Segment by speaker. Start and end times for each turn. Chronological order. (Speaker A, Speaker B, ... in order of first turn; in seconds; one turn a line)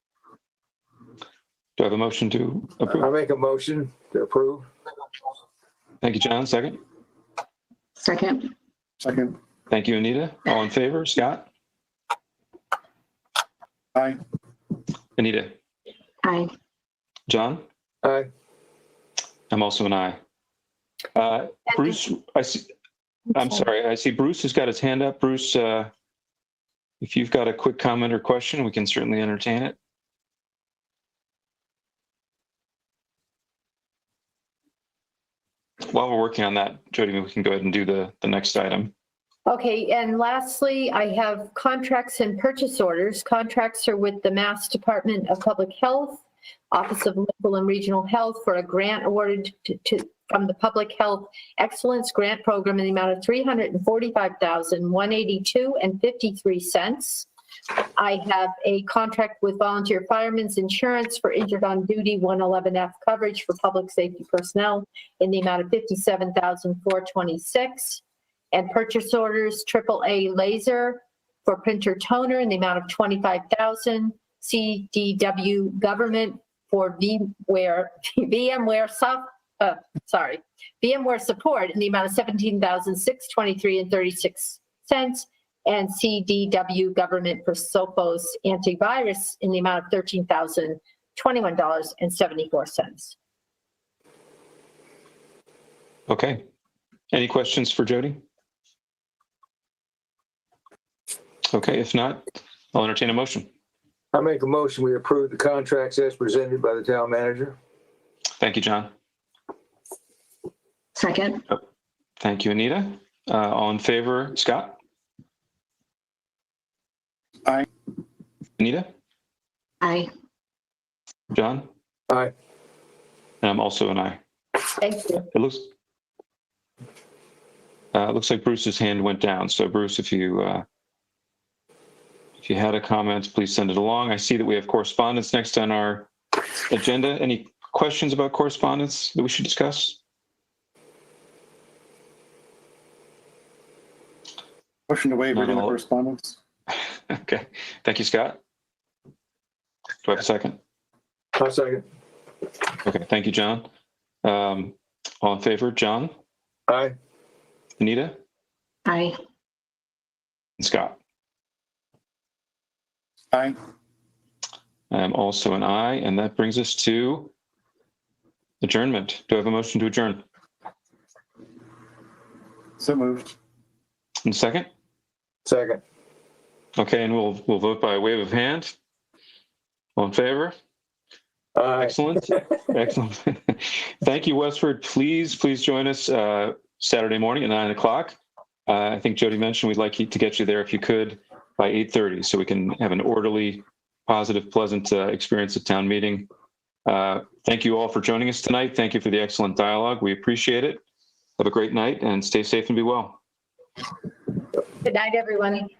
Speaker A: 1.8-3.1
Speaker B: 2.9-4.7
Speaker A: 6.0-6.8
Speaker C: 8.0-8.5
Speaker D: 9.0-9.4
Speaker A: 9.7-11.4
Speaker D: 13.9-14.2
Speaker A: 15.2-15.5
Speaker C: 16.2-16.5
Speaker A: 17.3-17.6
Speaker B: 18.0-18.3
Speaker A: 19.5-20.2
Speaker A: 21.1-22.7
Speaker A: 23.3-25.9
Speaker A: 27.0-29.8
Speaker A: 35.9-38.9
Speaker E: 39.5-57.3
Speaker E: 58.0-93.2
Speaker A: 96.1-96.4
Speaker A: 97.1-98.2
Speaker A: 101.5-103.5
Speaker B: 104.1-107.6
Speaker A: 108.4-108.9
Speaker C: 111.0-111.4
Speaker A: 112.2-114.8
Speaker A: 118.6-118.9
Speaker C: 119.8-120.1
Speaker A: 121.3-121.7
Speaker A: 123.4-124.2
Speaker E: 124.8-125.2
Speaker A: 125.3-125.7
Speaker A: 127.9-130.6
Speaker A: 132.4-136.1
Speaker A: 136.7-140.0
Speaker D: 144.9-146.4
Speaker A: 145.3-145.8
Speaker A: 146.7-148.4
Speaker A: 150.0-150.6
Speaker B: 151.3-151.8
Speaker A: 152.8-153.7
Speaker A: 154.2-156.1
Speaker B: 156.7-156.9
Speaker A: 157.8-158.2
Speaker C: 158.8-159.2
Speaker A: 160.6-161.0
Speaker D: 163.3-163.6
Speaker A: 164.9-167.3
Speaker A: 168.6-170.2
Speaker D: 172.8-173.3
Speaker A: 174.2-174.7
Speaker B: 175.4-175.8
Speaker A: 176.8-178.7
Speaker A: 179.9-180.5
Speaker B: 181.6-181.9
Speaker A: 181.8-196.3
Speaker A: 196.8-200.8
Speaker A: 201.4-203.2
Speaker E: 204.8-205.7